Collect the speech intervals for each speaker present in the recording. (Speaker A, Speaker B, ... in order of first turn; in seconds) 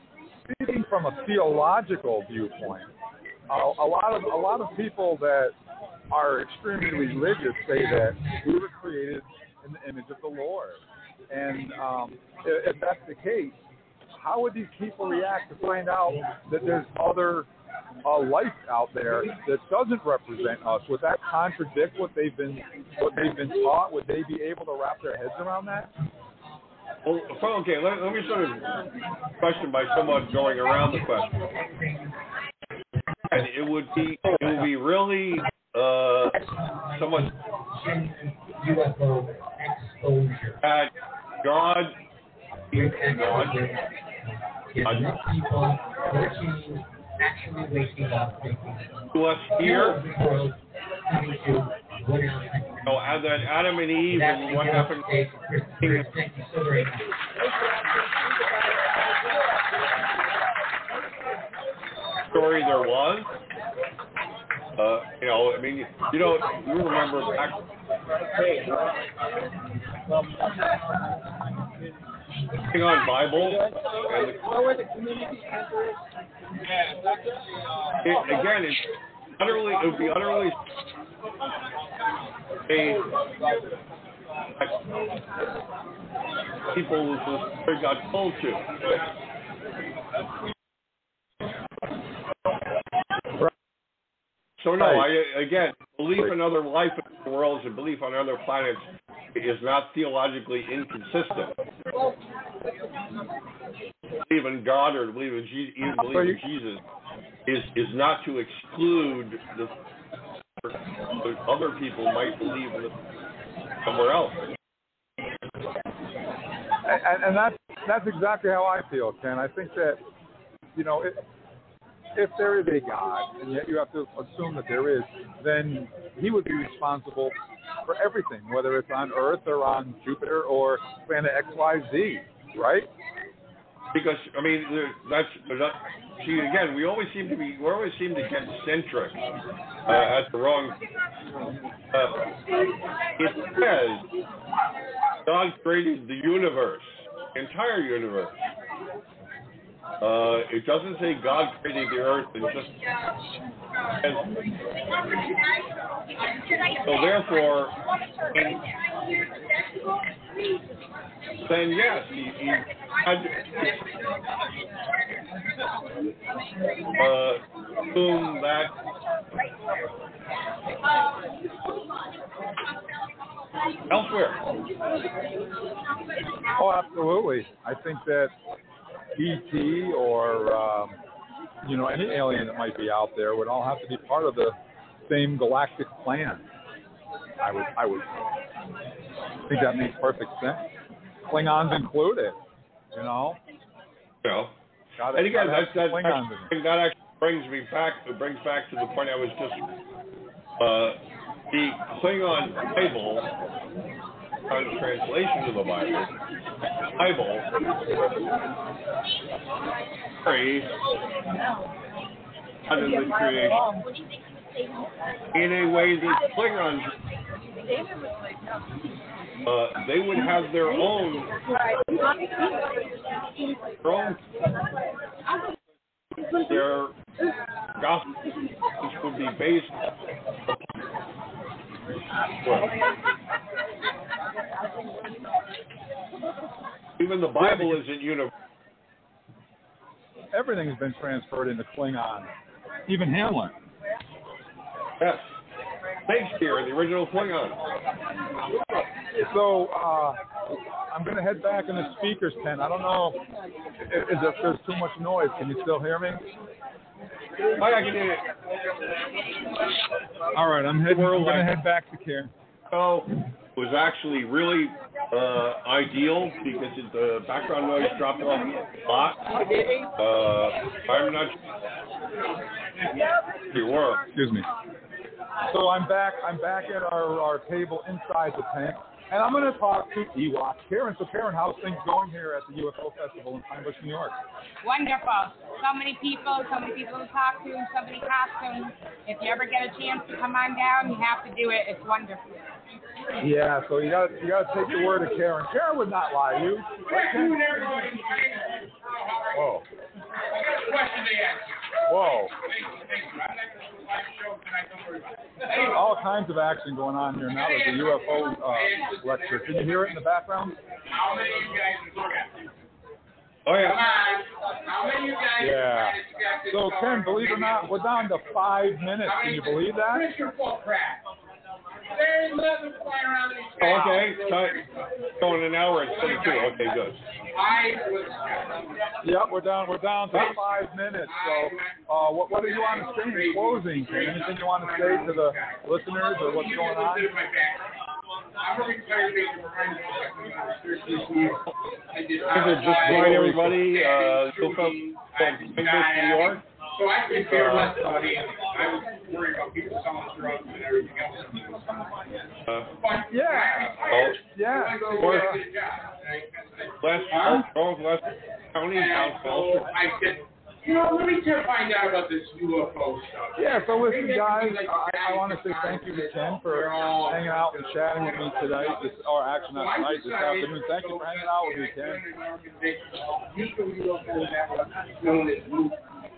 Speaker A: 0.5-2.9, 3.5-5.5, 6.1-13.6, 14.2-17.5, 18.0-25.9, 94.8-95.1, 106.0-106.4, 116.8-120.0, 120.7-121.2, 122.1-132.9, 176.5-178.3, 179.2-181.0, 181.6-184.6, 185.1-186.4, 187.4-188.2, 189.5-190.7, 191.3-192.4, 192.9-193.4, 195.0-196.5, 240.3-242.3, 242.9-243.6, 249.2-250.2, 250.9-253.2, 253.8-256.3, 260.3-262.3, 274.1-274.5, 275.5-284.2, 293.2-297.9, 299.3-299.6, 301.9-302.3, 305.7-310.6, 315.4-316.0, 316.5-320.1, 329.0-337.1, 353.1-355.4, 363.4-372.0
Speaker B: 27.0-28.8, 29.4-31.5, 33.3-36.4, 36.9-37.3, 40.6-40.9, 41.4-42.0, 43.1-43.5, 44.8-45.1, 49.1-50.0, 52.8-55.0, 62.3-63.3, 64.8-67.6, 72.7-74.5, 78.0-78.8, 79.4-80.6, 82.7-83.1, 86.7-88.7, 94.6-101.5, 104.3-106.8, 107.5-109.7, 110.6-112.9, 113.8-114.4, 133.9-139.2, 139.9-140.8, 141.9-142.3, 143.2-144.0, 145.2-148.3, 150.0-152.7, 154.0-154.3, 156.8-157.8, 158.3-158.7, 161.4-163.7, 166.9-168.7, 173.9-174.4, 194.2-194.5, 195.1-199.6, 200.6-201.0, 201.5-203.2, 204.5-206.1, 207.0-207.5, 210.2-210.7, 212.7-213.6, 215.3-216.9, 219.4-221.3, 223.8-224.2, 226.3-226.9, 227.8-228.1, 228.8-229.8, 230.5-230.7, 232.4-232.7, 237.0-238.3, 246.1-247.6, 257.6-258.2, 260.9-261.5, 262.7-269.4, 270.0-271.3, 273.5-274.0, 313.5-313.7, 323.6-324.6, 325.2-327.0, 342.3-346.4, 347.3-347.8, 353.9-354.2, 356.8-358.0, 358.5-359.7
Speaker C: 31.5-32.1, 36.4-40.6, 42.7-43.9, 44.7-53.1, 54.1-57.2
Speaker D: 284.6-292.2
Speaker E: 296.8-299.6, 300.3-305.9, 307.3-310.1, 310.7-312.5, 313.5-318.3, 319.0-321.0, 321.9-326.8, 327.3-328.9, 330.1-331.8, 332.4-337.7, 338.4-352.3, 352.8-357.5, 358.7-375.8